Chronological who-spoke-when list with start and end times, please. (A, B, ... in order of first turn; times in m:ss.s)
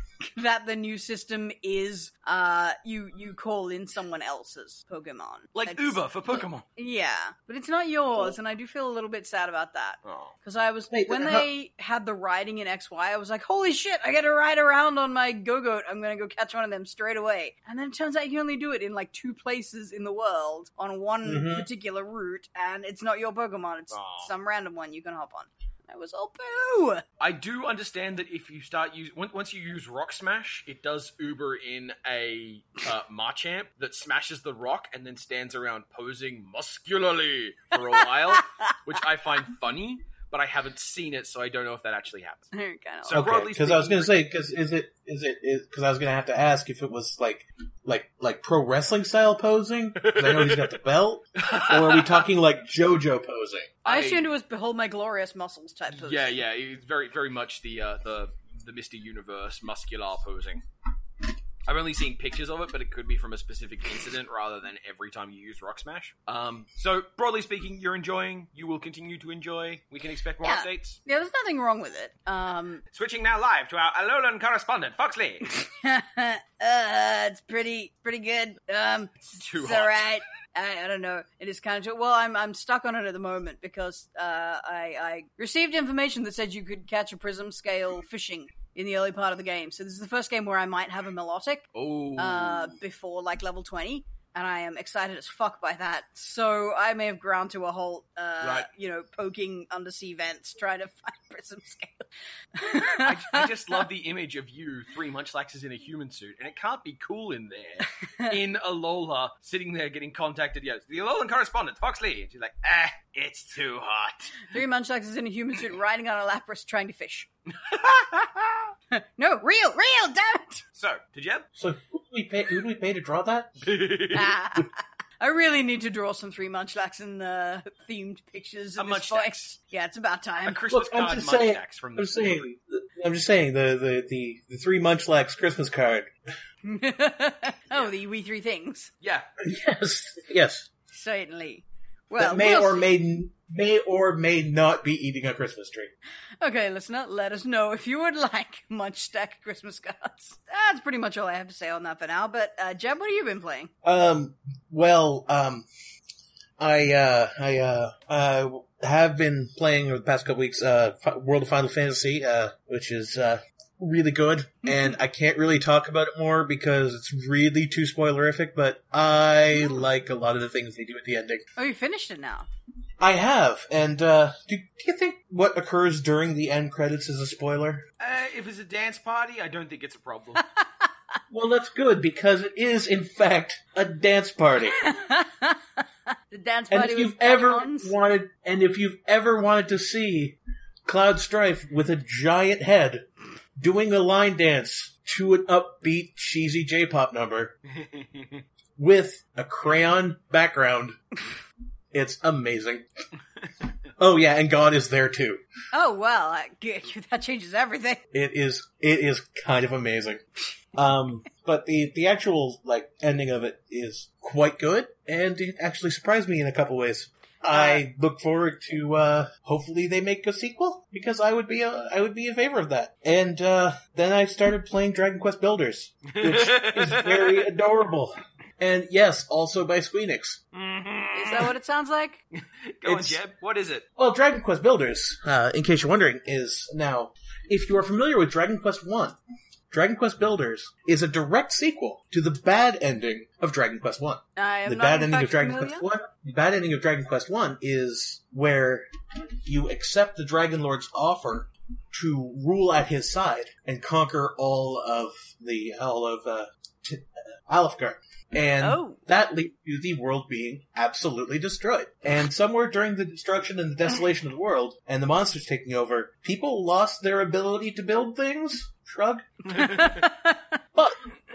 0:00.3-0:06.0 A
0:05.5-0:06.6 B
0:06.8-0:27.0 A
0:10.0-0:10.3 B
0:10.9-0:11.5 C
0:21.2-0:21.7 C
0:23.9-0:24.3 B
0:27.2-0:42.5 B
0:37.9-0:38.6 A
0:42.5-0:43.3 A
0:43.0-0:44.1 B
0:43.1-0:53.7 C
0:50.0-0:50.7 B
0:51.4-0:52.2 B
0:53.8-0:54.3 B
0:53.9-0:56.4 A
0:55.9-1:00.6 B
1:01.7-1:11.0 B
1:10.4-1:12.8 A
1:12.9-1:15.5 B
1:15.5-1:43.5 A
1:19.4-1:20.1 B
1:31.8-1:32.8 B
1:38.4-1:38.7 B
1:42.9-1:54.5 B
1:54.5-1:57.3 A
1:57.6-1:58.7 B
1:58.9-2:00.6 A
2:00.8-2:01.5 B
2:01.6-2:03.7 C
2:03.6-2:04.3 B
2:04.1-2:10.6 A
2:08.8-2:09.5 B
2:10.4-2:12.4 B
2:10.7-2:16.1 C
2:16.6-2:18.9 A
2:19.0-2:19.3 B
2:19.4-2:20.7 C
2:20.9-2:22.9 A
2:22.2-2:25.9 C
2:26.4-2:33.7 A
2:33.8-2:35.6 C
2:36.6-2:51.4 C
2:51.6-2:52.5 A
2:53.0-2:57.8 C
2:58.0-3:00.4 B
3:01.3-3:04.8 C
3:04.7-3:07.9 A
3:06.7-3:13.0 C
3:13.6-3:17.6 C
3:17.8-3:18.4 B
3:18.8-3:21.0 C
3:21.9-3:22.8 C
3:24.0-3:25.4 C
3:25.7-3:28.0 A
3:28.1-3:30.2 C
3:30.8-3:50.4 C
3:37.5-3:37.8 A
3:46.1-3:47.5 B
3:50.5-3:51.5 B
3:51.1-3:52.2 A
3:52.4-3:53.9 B
3:52.8-3:53.2 C
3:54.0-3:59.2 C
3:59.7-4:08.9 C
4:04.4-4:05.8 A
4:09.4-4:29.6 C
4:18.6-4:19.0 A
4:29.6-4:30.0 B
4:29.6-4:30.4 A
4:30.7-4:31.0 C